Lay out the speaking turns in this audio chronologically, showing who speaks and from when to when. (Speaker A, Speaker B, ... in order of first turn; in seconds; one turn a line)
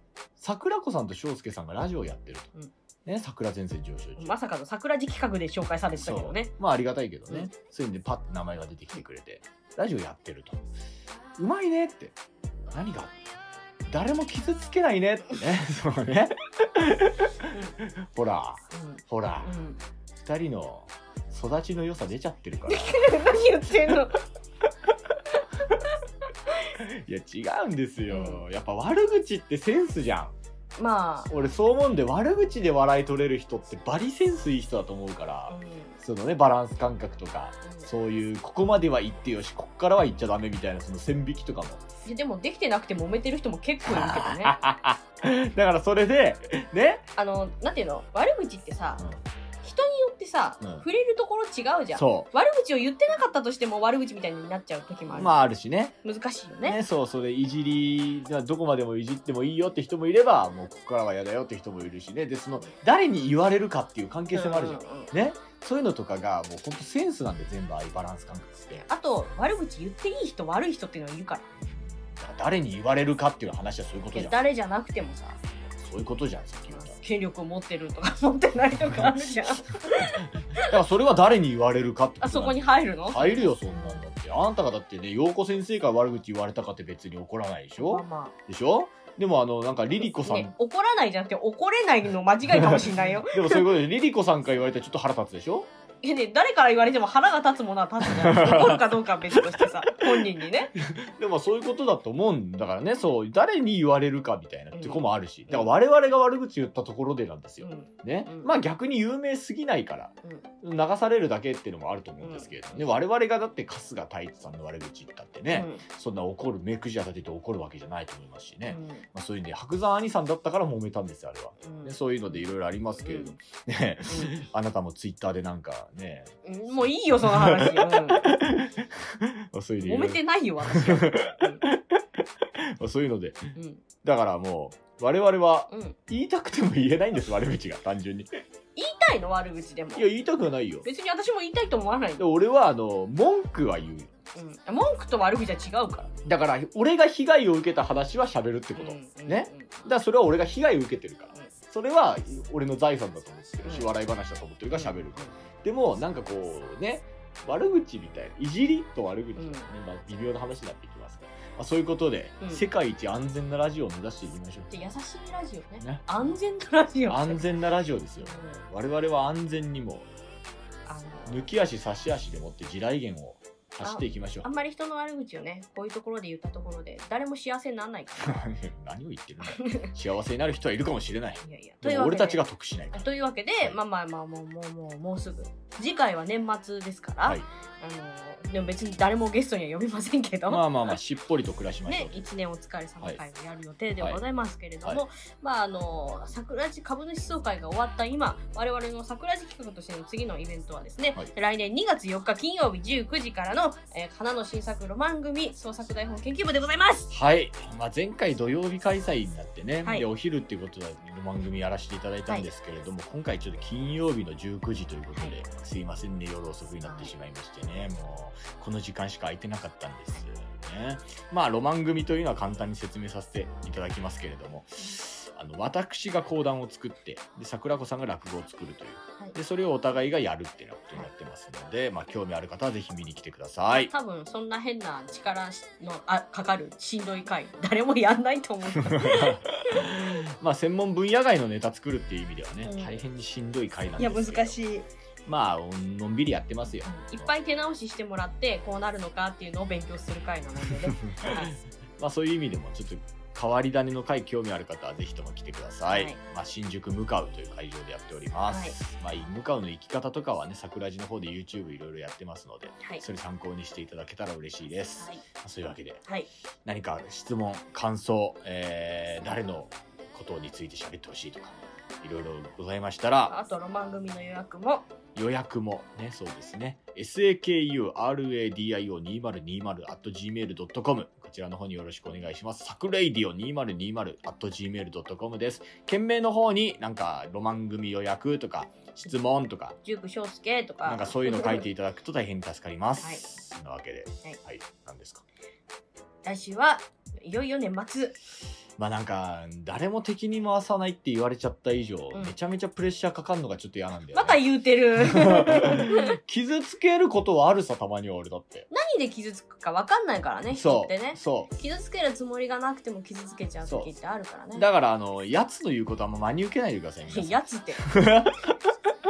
Speaker A: 0.4-2.5
Speaker A: 3.0-4.3
Speaker B: 4.2-6.5
Speaker A: 6.0-10.6
Speaker A: 11.4-12.2
Speaker A: 12.7-13.2
Speaker A: 13.9-19.6
Speaker B: 18.7-19.8
Speaker A: 20.1-23.1
Speaker B: 22.7-24.2
Speaker A: 26.7-30.4
Speaker B: 28.1-28.4
Speaker B: 30.8-31.3
Speaker A: 31.3-41.9
Speaker B: 35.5-36.0
Speaker B: 42.0-44.5
Speaker A: 43.9-47.0
Speaker B: 47.2-49.0
Speaker B: 49.6-55.4
Speaker A: 50.6-50.9
Speaker A: 51.9-52.3
Speaker A: 55.1-55.9
Speaker B: 56.0-56.8
Speaker A: 56.6-68.9
Speaker B: 64.3-65.1
Speaker B: 68.9-71.5
Speaker A: 72.1-74.4
Speaker B: 74.1-75.4
Speaker A: 75.7-77.0
Speaker B: 76.7-80.7
Speaker A: 79.0-90.5
Speaker B: 82.2-84.0
Speaker B: 87.8-88.4
Speaker B: 90.0-93.7
Speaker A: 92.5-95.7
Speaker B: 96.0-100.7
Speaker A: 98.0-100.2
Speaker A: 100.8-132.0
Speaker B: 104.7-105.7
Speaker B: 107.6-108.5
Speaker B: 112.2-112.8
Speaker B: 115.5-115.8
Speaker B: 118.7-119.1
Speaker B: 121.6-123.4
Speaker B: 126.5-128.4
Speaker B: 129.8-131.6
Speaker A: 132.6-138.4
Speaker B: 133.6-133.8
Speaker B: 135.7-136.0
Speaker B: 138.8-140.1
Speaker A: 140.0-140.9
Speaker B: 140.8-142.3
Speaker A: 142.2-144.1
Speaker B: 144.3-146.1
Speaker A: 146.2-164.7
Speaker B: 148.7-149.9
Speaker B: 153.6-153.9
Speaker B: 154.7-155.3
Speaker B: 159.4-159.7
Speaker B: 162.4-162.7
Speaker B: 164.7-167.4
Speaker A: 165.8-166.3
Speaker A: 167.1-170.1
Speaker B: 168.2-168.6
Speaker B: 170.9-171.4
Speaker A: 171.3-174.5
Speaker B: 173.8-178.5
Speaker A: 178.2-183.0
Speaker B: 179.5-179.9
Speaker B: 181.4-190.9
Speaker A: 190.5-192.2
Speaker B: 191.9-207.1
Speaker A: 207.1-233.9
Speaker B: 216.8-217.1
Speaker B: 233.7-239.9
Speaker A: 238.8-244.6
Speaker B: 242.6-243.0
Speaker B: 244.0-244.9
Speaker A: 245.3-247.3
Speaker B: 246.7-251.5
Speaker A: 251.0-266.0
Speaker B: 255.9-256.2
Speaker B: 258.5-258.8
Speaker A: 266.6-273.4
Speaker B: 273.3-274.9
Speaker A: 275.1-289.8
Speaker B: 289.8-291.6
Speaker A: 290.9-295.2
Speaker B: 296.2-298.2
Speaker A: 298.8-304.4
Speaker B: 304.1-306.1
Speaker A: 305.0-308.7
Speaker B: 308.7-314.7
Speaker A: 310.5-311.5
Speaker A: 313.6-313.9
Speaker A: 314.6-318.5
Speaker B: 317.1-317.9